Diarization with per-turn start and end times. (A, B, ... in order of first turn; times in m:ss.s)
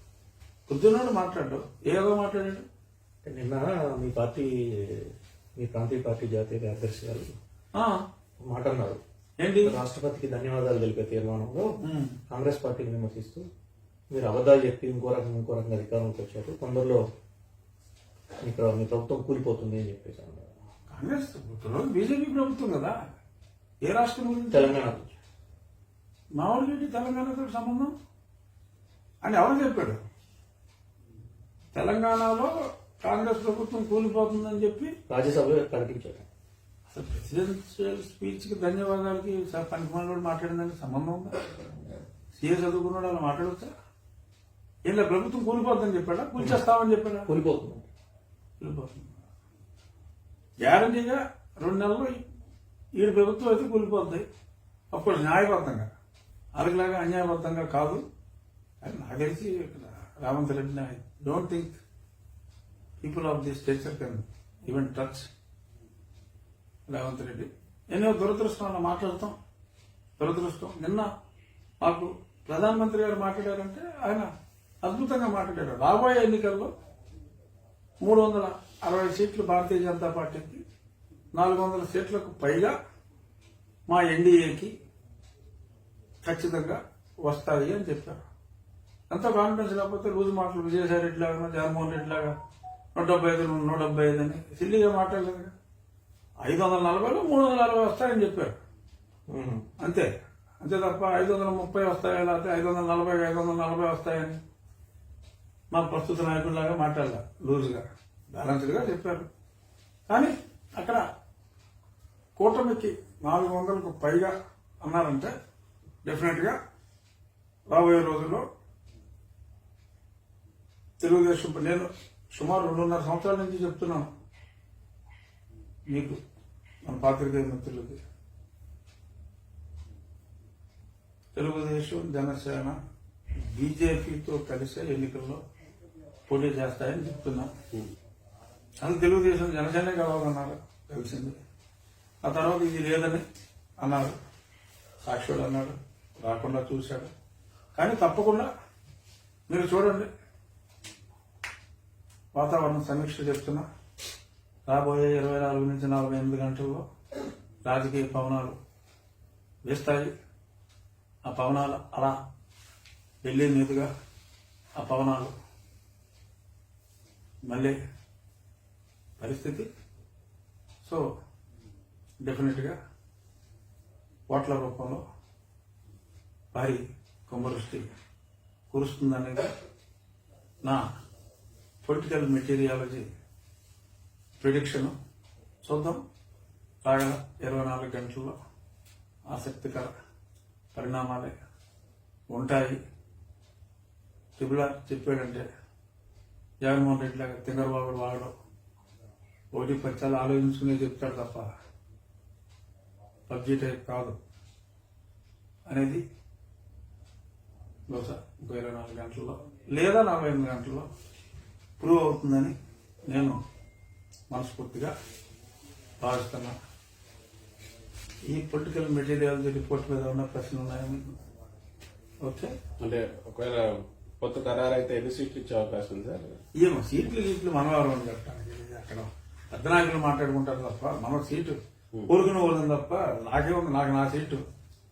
0:00.7-0:02.6 A
0:03.2-0:07.3 B
0:08.5-0:09.0 B
0:09.4-0:09.7 A
0:09.7-0:11.7 B
0:11.8-0:12.2 A
0:12.3-0:13.4 B
0:14.1-0:17.0 B
0:18.4-0:20.5 B
0:20.9-0:23.0 A
0:23.8-0:24.8 A
0:24.5-0:25.2 B
0:26.4-0:27.9 A
0:29.2-0:30.0 A
0:31.7-0:34.9 A
0:35.1-0:36.3 B
0:36.9-0:41.3 A
0:42.3-0:43.7 A
0:44.9-0:47.3 A
0:47.3-0:47.9 B
0:48.6-0:49.2 A
0:50.6-0:52.2 A
0:53.0-0:54.2 A
0:54.9-0:55.9 A
0:56.6-0:58.0 A
0:58.8-1:01.8 A
1:03.0-1:05.3 A
1:06.9-1:09.4 A
1:10.2-1:11.1 A
1:11.8-1:14.3 A
1:14.8-1:16.7 A
1:18.0-1:20.6 A
1:21.4-1:22.7 A
1:23.9-1:24.7 A
1:26.2-1:28.2 A
1:29.1-1:32.3 A
1:33.0-1:35.5 A
1:36.4-1:38.6 A
1:39.3-1:39.6 B
1:39.8-1:40.1 A
1:40.6-1:44.4 A
1:45.7-1:49.3 A
1:50.1-1:51.0 A
1:52.4-1:55.3 A
1:56.0-1:56.6 A
1:57.7-1:58.4 A
2:01.0-2:04.1 A
2:05.9-2:06.2 A
2:06.9-2:08.0 A
2:11.4-2:12.8 A
2:13.4-2:15.4 A
2:16.3-2:17.5 A
2:18.8-2:21.4 A
2:22.2-2:23.2 A
2:23.8-2:24.2 A
2:25.0-2:27.1 A
2:27.8-2:28.5 A
2:29.5-2:30.1 A
2:32.4-2:33.6 A
2:34.7-2:36.8 A
2:37.7-2:38.6 A
2:39.7-2:40.1 A
2:41.2-2:42.2 A
2:43.2-2:43.9 A
2:44.8-2:45.3 A
2:47.5-2:47.8 A
2:49.2-2:49.7 A
2:52.2-2:52.8 A
2:54.3-2:55.0 A
2:56.5-2:57.9 A
2:58.7-2:59.5 A
3:01.8-3:03.1 A
3:04.4-3:04.9 A
3:05.6-3:06.0 A
3:06.8-3:08.4 A
3:09.3-3:09.9 A
3:10.8-3:11.3 A
3:12.3-3:12.8 A
3:14.4-3:15.4 A
3:16.6-3:18.3 A
3:19.5-3:21.5 A
3:23.3-3:24.2 A
3:25.7-3:26.0 A
3:27.9-3:30.9 A
3:31.8-3:32.5 A
3:33.1-3:33.4 A
3:34.3-3:34.9 A
3:36.0-3:36.6 A
3:38.3-3:41.1 A
3:42.2-3:42.6 A
3:42.8-3:46.4 C
3:46.6-3:54.4 A